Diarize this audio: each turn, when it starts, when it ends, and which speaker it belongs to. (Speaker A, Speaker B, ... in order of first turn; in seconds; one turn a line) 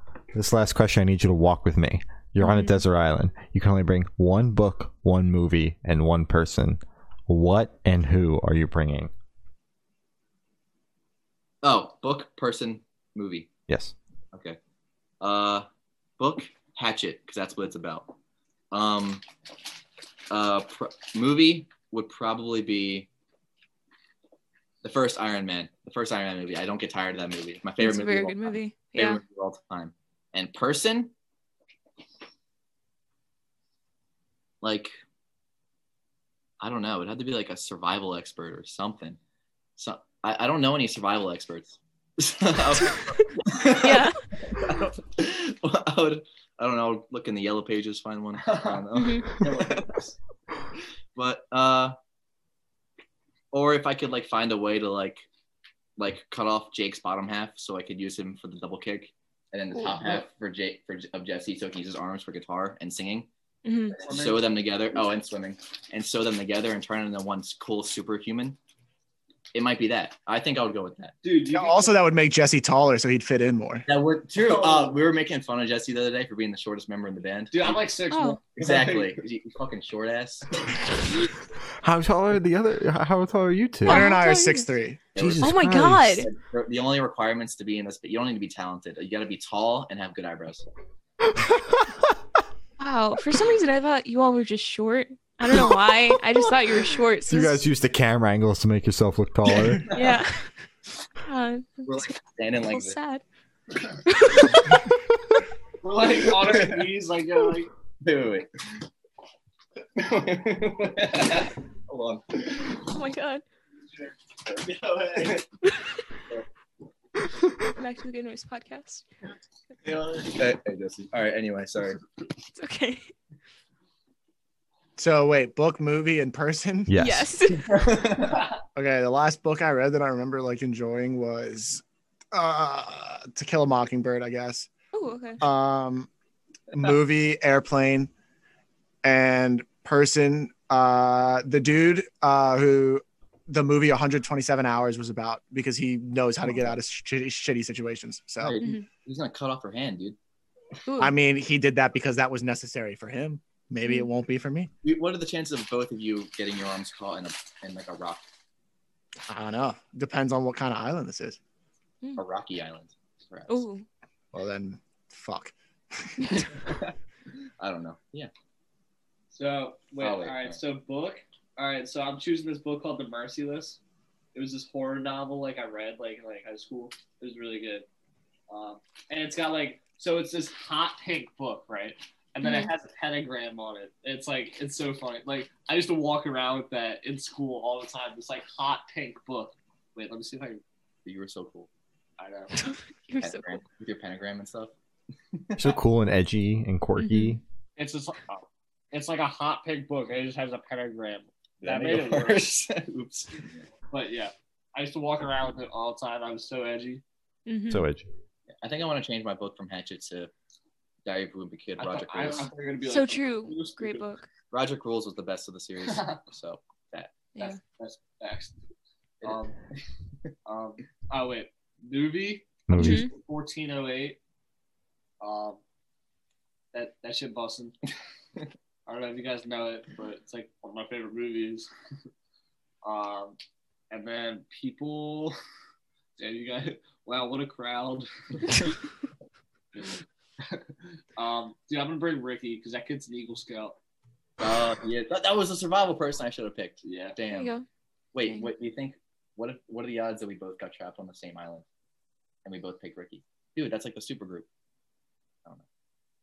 Speaker A: 0.3-9.1
Speaker B: 2.4-2.8
Speaker C: 11.6-13.5
Speaker A: 13.7-13.9
Speaker C: 14.3-14.6
Speaker C: 15.2-15.7
Speaker C: 16.2-18.1
Speaker C: 18.7-19.2
Speaker C: 20.3-23.1
Speaker C: 24.8-31.1
Speaker B: 27.8-29.2
Speaker C: 34.6-34.9
Speaker C: 36.6-39.2
Speaker C: 39.8-50.1
Speaker B: 43.8-44.2
Speaker D: 48.4-50.0
Speaker B: 48.9-49.4
Speaker C: 51.1-52.0
Speaker C: 53.5-55.2
Speaker C: 56.0-63.3
Speaker B: 63.6-64.0
Speaker D: 64.0-64.5
Speaker C: 64.0-68.6
Speaker C: 69.5-71.2
Speaker D: 71.2-72.1
Speaker E: 71.5-73.8
Speaker C: 73.9-77.9
Speaker D: 74.4-74.9
Speaker D: 77.5-79.2
Speaker B: 78.1-78.4
Speaker C: 78.6-80.8
Speaker A: 81.8-84.1
Speaker B: 83.8-84.7
Speaker E: 83.9-85.0
Speaker C: 85.1-90.7
Speaker A: 85.2-86.2
Speaker B: 85.4-86.3
Speaker A: 91.3-91.9
Speaker B: 92.8-97.6
Speaker A: 97.3-99.8
Speaker C: 99.5-100.2
Speaker B: 99.9-100.5
Speaker B: 101.2-102.1
Speaker C: 101.8-103.0
Speaker B: 102.7-103.2
Speaker B: 104.0-104.9
Speaker D: 105.8-107.7
Speaker C: 106.4-106.8
Speaker C: 108.0-108.5
Speaker C: 110.0-112.8
Speaker B: 112.8-113.4
Speaker C: 114.5-115.5
Speaker B: 115.7-115.9
Speaker B: 117.7-119.0
Speaker C: 119.9-122.0
Speaker B: 122.5-123.1
Speaker E: 125.0-126.9
Speaker A: 126.9-127.3
Speaker B: 127.0-128.1
Speaker C: 127.6-128.5
Speaker E: 128.8-134.7
Speaker B: 134.9-135.4
Speaker E: 135.4-136.1
Speaker E: 136.7-138.1
Speaker E: 139.0-148.6
Speaker C: 148.4-150.2
Speaker B: 150.9-151.2
Speaker E: 151.0-154.7
Speaker B: 153.8-154.1
Speaker C: 154.8-158.3
Speaker E: 159.3-161.4
Speaker C: 162.2-163.7
Speaker B: 163.5-163.8
Speaker E: 164.3-166.4
Speaker C: 166.5-166.9
Speaker C: 167.6-168.3
Speaker D: 169.3-173.8
Speaker C: 170.0-170.6
Speaker D: 174.3-177.9
Speaker D: 178.5-190.6
Speaker B: 182.4-182.7
Speaker C: 191.1-191.7
Speaker D: 192.2-192.7
Speaker B: 192.7-193.6
Speaker C: 193.2-194.7
Speaker C: 195.3-195.8
Speaker A: 195.6-197.4
Speaker B: 197.0-197.4
Speaker D: 197.8-202.7
Speaker C: 201.6-203.6
Speaker D: 203.9-207.0
Speaker B: 207.5-207.9
Speaker A: 207.7-208.1
Speaker C: 208.6-210.3
Speaker C: 211.1-212.5
Speaker D: 211.8-214.1
Speaker B: 212.8-214.3
Speaker C: 214.5-217.1
Speaker D: 215.8-216.2
Speaker D: 217.4-218.6
Speaker D: 219.2-219.6
Speaker D: 220.5-224.2
Speaker A: 222.7-223.1
Speaker B: 222.8-223.1
Speaker D: 225.2-225.6
Speaker D: 226.7-227.9
Speaker D: 228.9-231.7
Speaker D: 232.8-233.4
Speaker D: 233.9-235.4
Speaker D: 236.2-238.7
Speaker D: 239.7-240.7
Speaker D: 241.2-243.8
Speaker C: 244.4-247.6
Speaker D: 246.8-247.2
Speaker B: 247.3-247.7
Speaker C: 248.1-251.7
Speaker C: 252.4-254.5